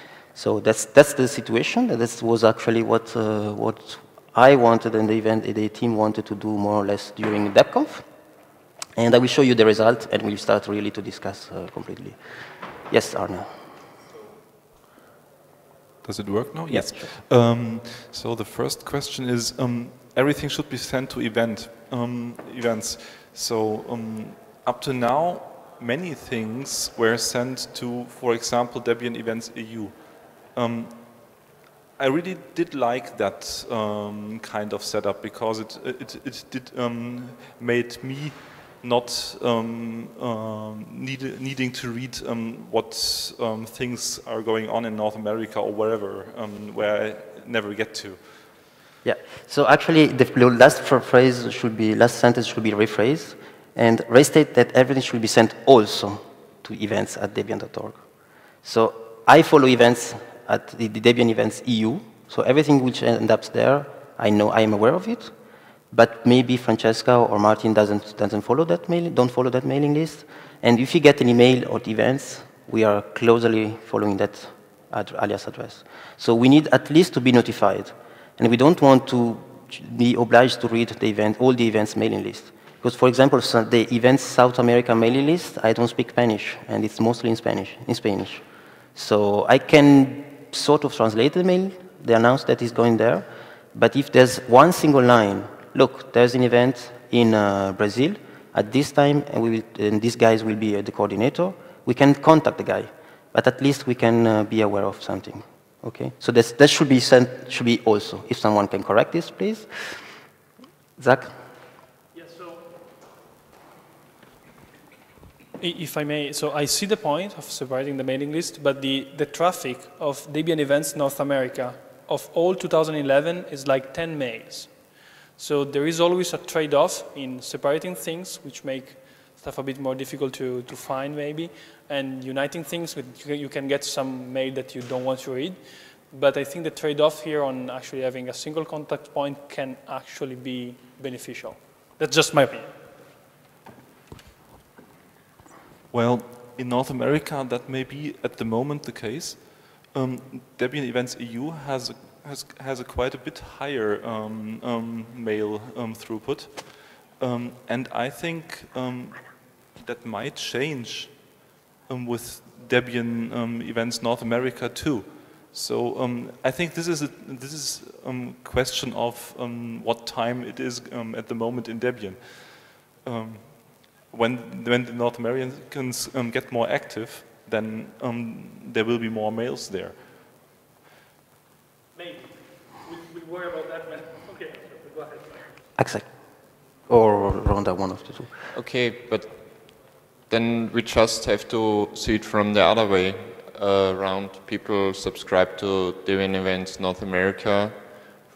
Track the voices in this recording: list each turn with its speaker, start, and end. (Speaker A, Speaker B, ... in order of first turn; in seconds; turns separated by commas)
Speaker A: 0.3-8.0, Speaker A: 9.0-12.2, Speaker A: 12.9-13.5, Speaker B: 16.0-29.9, Speaker A: 16.7-17.1, Speaker B: 30.5-31.0, Speaker B: 32.0-48.4, Speaker A: 49.0-58.0, Speaker A: 58.6-65.3, Speaker A: 65.9-88.4, Speaker A: 89.0-109.7, Speaker A: 111.0-111.3, Speaker C: 115.6-124.7, Speaker C: 125.4-142.7, Speaker B: 145.9-161.1, Speaker B: 161.9-180.0, Speaker C: 183.4-183.8, Speaker A: 185.8-186.1, Speaker A: 186.9-188.3, Speaker D: 188.5-197.8